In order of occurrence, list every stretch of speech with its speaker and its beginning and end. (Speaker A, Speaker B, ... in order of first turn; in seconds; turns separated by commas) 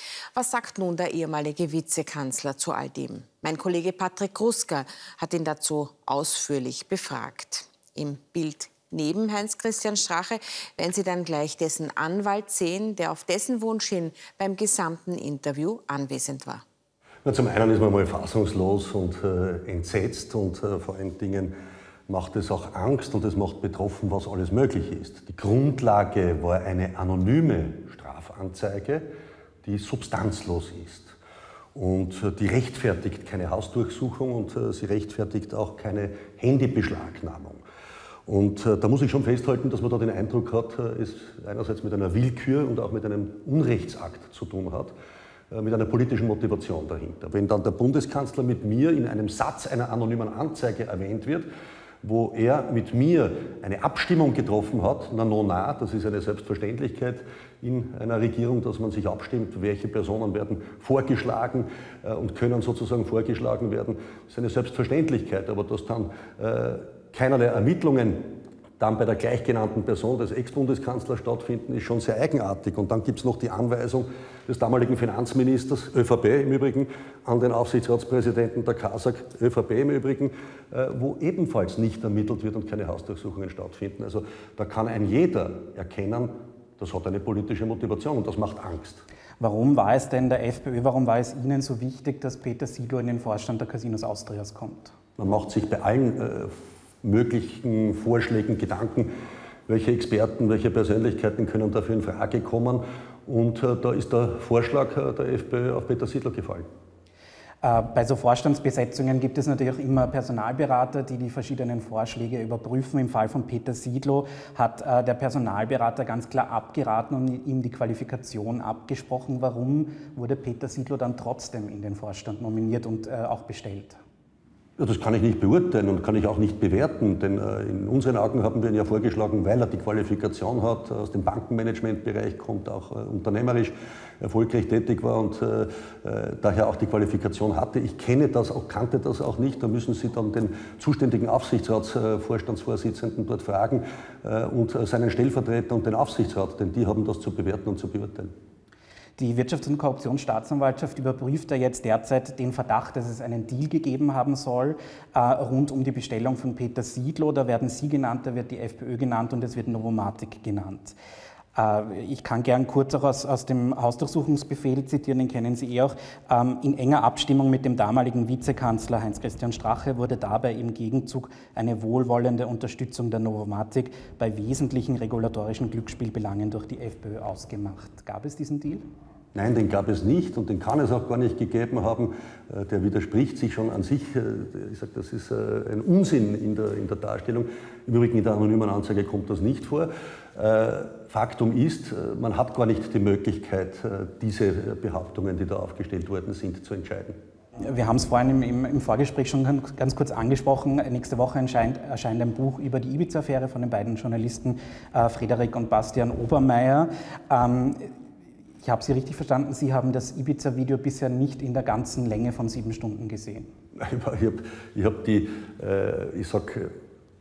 Speaker A: 0.3-16.6, Speaker B: 17.2-21.5, Speaker B: 22.1-29.0, Speaker B: 29.6-31.1, Speaker B: 31.8-37.6, Speaker B: 38.3-45.0, Speaker B: 45.5-51.5, Speaker B: 52.0-89.0, Speaker C: 89.4-94.9, Speaker B: 95.2-99.1, Speaker B: 99.7-106.7, Speaker C: 107.6-124.0, Speaker B: 124.8-148.3, Speaker C: 149.2-160.9, Speaker C: 161.6-178.8, Speaker B: 179.3-197.2, Speaker C: 197.6-207.9, Speaker C: 208.6-213.5, Speaker B: 213.8-216.7